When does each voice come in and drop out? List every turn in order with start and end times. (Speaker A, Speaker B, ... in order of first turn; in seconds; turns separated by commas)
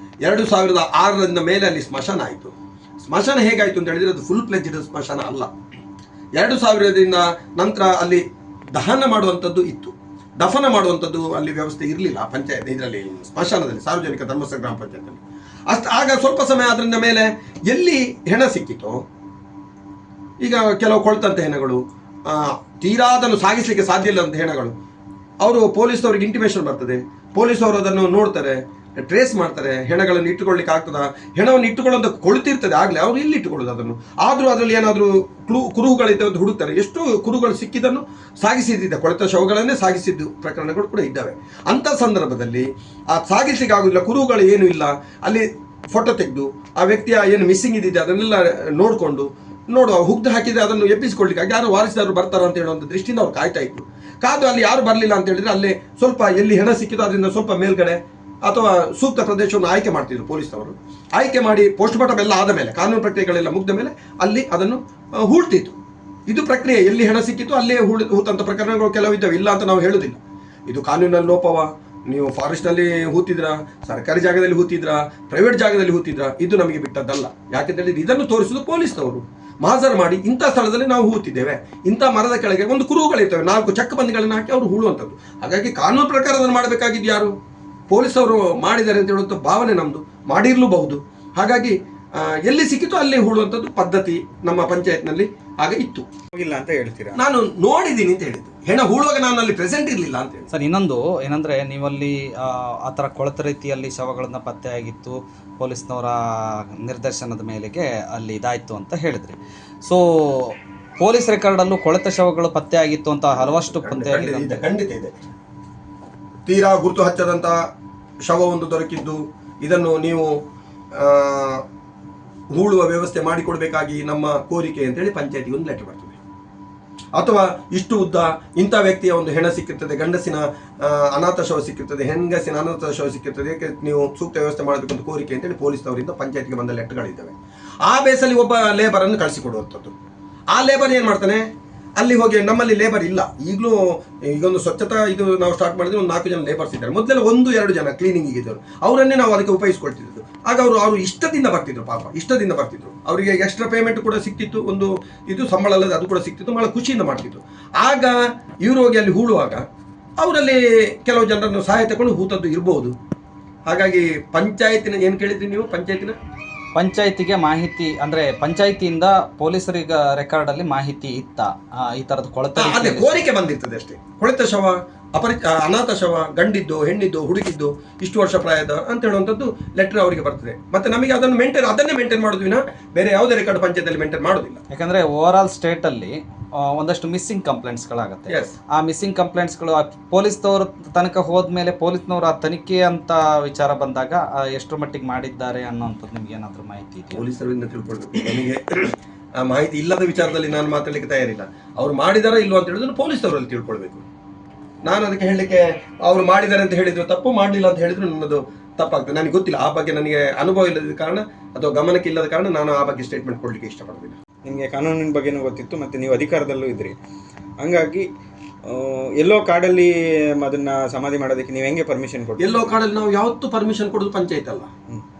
Speaker A: 0.2-5.5, Speaker A: 6.3-8.2, Speaker A: 8.7-19.0, Speaker A: 20.4-24.7, Speaker A: 25.4-65.8, Speaker A: 66.3-87.3, Speaker A: 87.9-96.0, Speaker B: 96.3-97.2, Speaker A: 97.2-100.5, Speaker C: 100.5-106.2, Speaker C: 106.8-114.6, Speaker A: 113.3-115.1, Speaker A: 116.5-117.5, Speaker A: 118.3-120.3, Speaker A: 120.9-121.6, Speaker A: 122.5-126.2, Speaker A: 127.1-139.9, Speaker A: 140.5-141.4, Speaker A: 142.0-159.6, Speaker A: 160.2-162.9, Speaker A: 163.7-166.2, Speaker C: 166.8-173.2, Speaker A: 172.6-184.6, Speaker C: 184.7-186.1, Speaker C: 186.7-197.2, Speaker A: 188.3-188.5, Speaker A: 197.1-204.0, Speaker A: 204.8-214.2, Speaker B: 214.5-217.0, Speaker B: 217.6-218.1, Speaker B: 218.7-222.5, Speaker A: 222.4-224.7